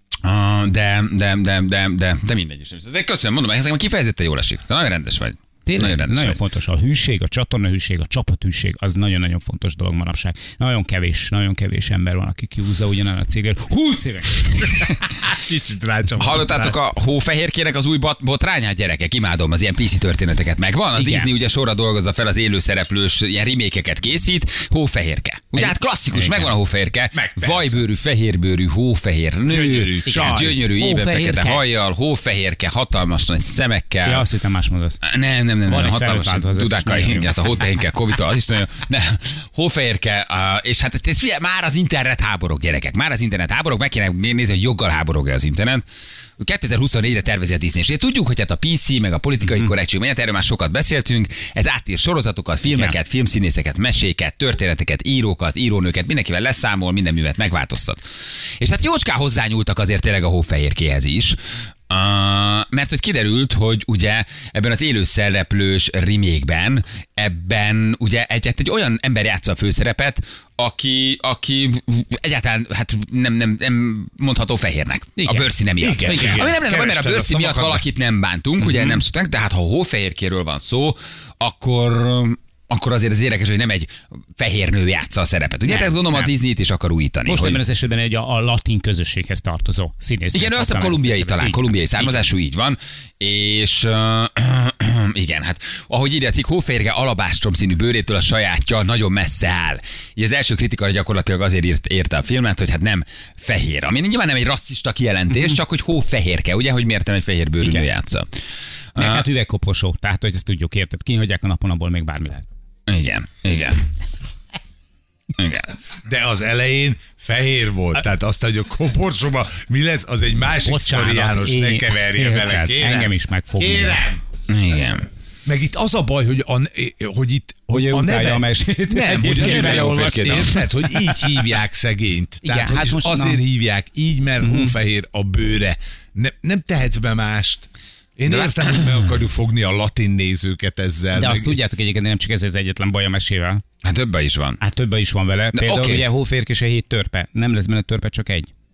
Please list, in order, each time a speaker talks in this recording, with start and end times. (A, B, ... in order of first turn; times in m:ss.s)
0:00.2-0:06.4 A
0:05.6-0:14.7 B
0:15.0-0:16.8 C
0:16.1-0:34.2 A
0:21.0-0:21.3 B
0:25.5-0:26.5 B
0:27.1-0:27.8 C
0:29.5-0:30.6 C
0:30.1-0:31.6 B
0:34.0-0:35.0 B
0:35.0-0:45.8 A
0:35.6-0:37.8 B
0:46.4-0:58.0 A
0:49.4-0:49.7 B
0:52.7-0:53.0 B
0:58.6-1:01.4 A
1:01.9-1:27.6 A
1:15.2-1:15.5 B
1:15.8-1:17.8 C
1:16.0-1:16.5 B
1:18.6-1:19.0 B
1:25.6-1:26.3 B
1:27.2-1:32.3 B
1:30.3-1:48.2 A
1:47.6-1:47.9 B
1:48.9-1:49.3 A
1:49.0-1:52.4 B
1:52.9-1:53.8 A
1:55.4-1:55.7 A
1:56.0-2:04.2 C
2:00.6-2:04.1 B
2:04.5-2:05.1 A
2:05.4-2:21.6 C
2:07.7-2:11.0 B
2:09.3-2:10.5 A
2:12.4-2:13.4 B
2:14.4-2:14.8 B
2:18.3-2:19.2 A
2:21.1-2:23.6 B
2:23.8-2:24.6 A
2:24.6-2:28.5 B
2:25.5-2:26.0 A